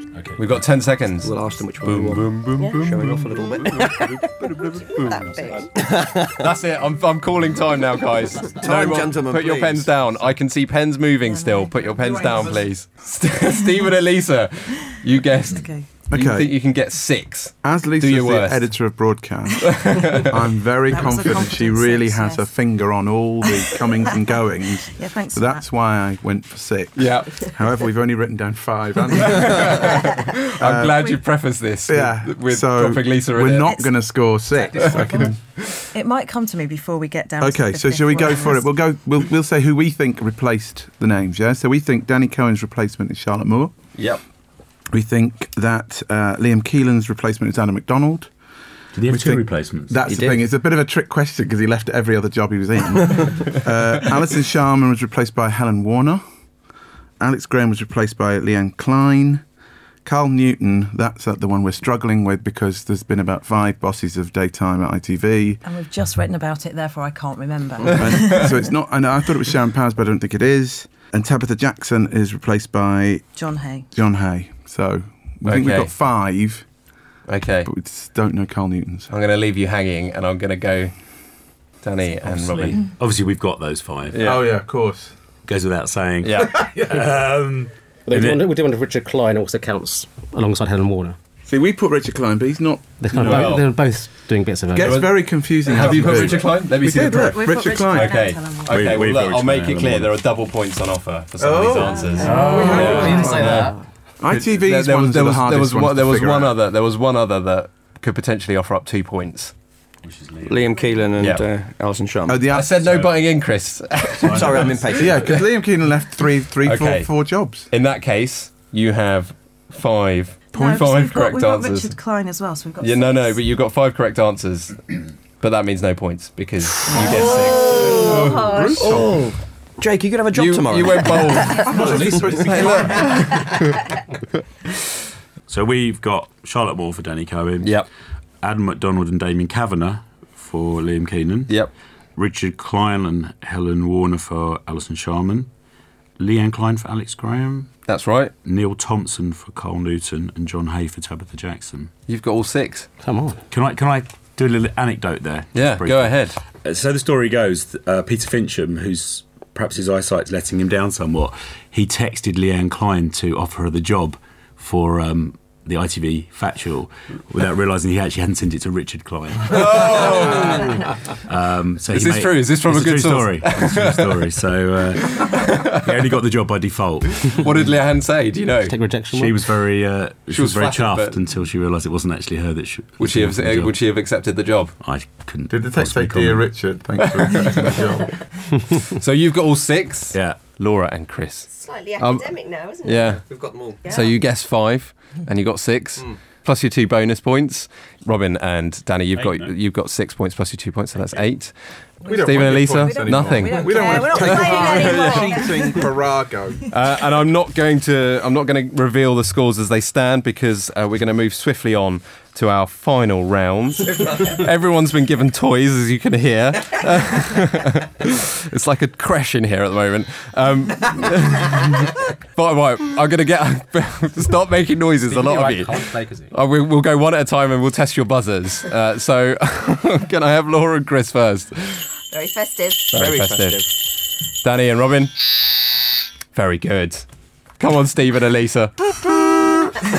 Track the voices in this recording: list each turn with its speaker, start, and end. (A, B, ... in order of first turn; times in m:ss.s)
0:00.1-0:00.6 A
0:00.4-0:05.6 B
0:01.2-0:04.0 C
0:03.7-0:04.0 D
0:05.0-0:05.7 D
0:05.7-0:06.5 C
0:06.4-0:18.8 B
0:08.4-0:08.8 E
0:08.6-0:09.9 C
0:11.2-0:12.7 F
0:15.4-0:15.9 F
0:16.1-0:16.5 G
0:17.6-0:31.2 G
0:19.6-0:20.4 B
0:20.9-0:22.5 F
0:23.6-0:24.2 F
0:24.9-0:25.6 F
0:27.0-0:27.5 B
0:29.1-0:33.8 B
0:31.8-0:35.4 G
0:35.9-0:38.7 F
0:37.4-0:43.7 G
0:44.9-0:48.3 G
0:48.9-0:50.1 A
0:49.1-0:56.2 G
0:50.1-0:50.4 C
0:57.2-0:59.4 G
1:00.0-1:05.6 G
1:05.6-1:08.6 F
1:07.9-1:13.2 G
1:13.4-1:13.9 F
1:13.9-1:16.6 G
1:15.4-1:15.9 B
1:17.3-1:17.7 B
1:17.6-1:19.1 G
1:19.1-1:20.9 B
1:21.8-1:22.9 B
1:22.2-1:24.2 A
1:24.1-1:24.5 B
1:24.2-1:25.1 G
1:25.4-1:28.5 A
1:26.2-1:26.7 B
1:28.1-1:31.2 E
1:31.5-1:33.5 G
1:33.0-1:35.1 E
1:33.1-1:33.7 B
1:34.7-1:38.3 G
1:34.8-1:43.7 B
1:36.8-1:38.9 F
1:38.7-1:40.1 A
1:41.4-1:43.5 G
1:41.8-1:43.6 F
1:42.2-1:43.8 E
1:42.3-1:43.2 A
1:44.2-1:46.5 G
1:44.3-1:49.5 B
1:50.0-1:50.7 A
1:50.4-1:52.4 C
1:51.2-1:51.4 B
1:52.3-1:52.8 G
1:52.5-1:54.8 B
1:52.8-1:53.2 A
1:54.2-1:55.1 A
1:54.3-1:55.3 C
1:54.9-1:57.7 G
1:56.6-1:57.1 B
1:57.7-2:01.9 B
2:00.5-2:03.4 F
2:02.8-2:08.8 B
2:06.9-2:08.8 D
2:07.0-2:11.6 C
2:07.1-2:09.0 G
2:10.3-2:13.8 B
2:11.6-2:13.4 G
2:11.8-2:12.2 E
2:15.5-2:17.8 A
2:17.6-2:17.9 B
2:18.4-2:21.6 A
2:22.2-2:25.5 A
2:26.2-2:27.7 A
2:27.9-2:28.3 B
2:28.4-2:31.9 A
2:32.1-2:32.9 B
2:33.0-2:33.4 E
2:33.5-2:50.7 A
2:35.5-2:36.4 B
2:49.5-2:50.8 B
2:51.3-2:57.4 A
2:51.9-2:54.1 B
2:55.0-2:55.9 B
2:57.2-2:58.7 B
2:58.6-2:59.4 E
2:59.1-3:03.8 A
3:00.3-3:01.2 B
3:03.0-3:04.8 B
3:04.8-3:06.5 A
3:05.5-3:08.1 G
3:07.1-3:07.9 B
3:08.9-3:12.3 B
3:10.1-3:10.4 A
3:11.5-3:13.2 D
3:12.8-3:13.2 B
3:13.2-3:13.8 C
3:13.8-3:14.2 D
3:13.8-3:25.3 B
3:19.2-3:19.5 A
3:22.0-3:25.9 F
3:22.0-3:26.6 G
3:23.8-3:25.5 D
3:26.7-3:45.8 B
3:45.0-3:46.3 E
3:46.3-3:51.8 B
3:52.1-3:53.0 D
3:52.9-3:53.7 B
3:53.0-3:53.7 C
3:54.4-3:55.2 B
3:56.3-3:57.0 B
3:57.6-3:58.9 B